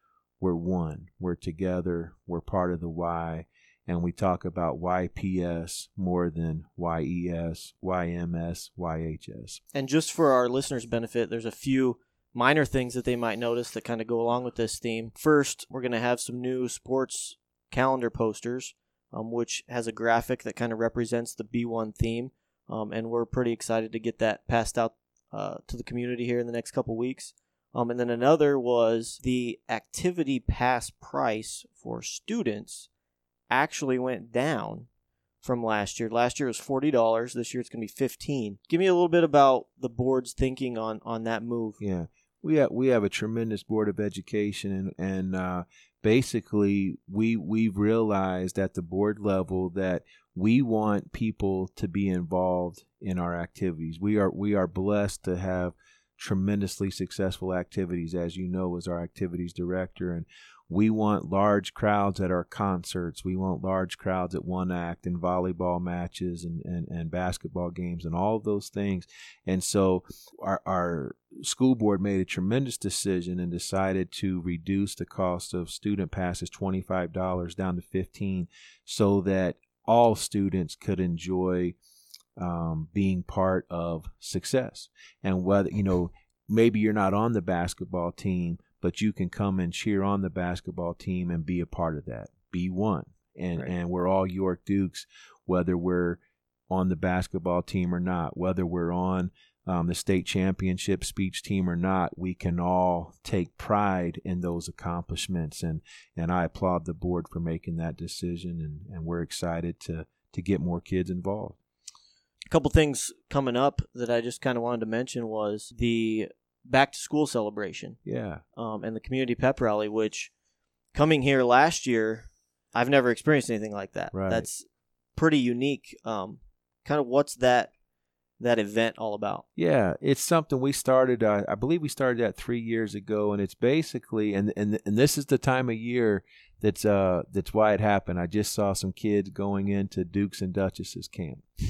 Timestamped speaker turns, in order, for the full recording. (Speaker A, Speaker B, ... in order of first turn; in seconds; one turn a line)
Speaker A: 0.4-9.6
Speaker B: 9.7-32.9
Speaker B: 33.5-34.9
Speaker B: 35.4-41.8
Speaker A: 41.8-81.8
Speaker A: 82.4-111.6
Speaker B: 112.5-118.0
Speaker A: 118.0-118.4
Speaker B: 118.6-120.3
Speaker B: 120.9-127.7
Speaker A: 124.1-124.5
Speaker B: 128.4-129.5
Speaker A: 129.6-141.5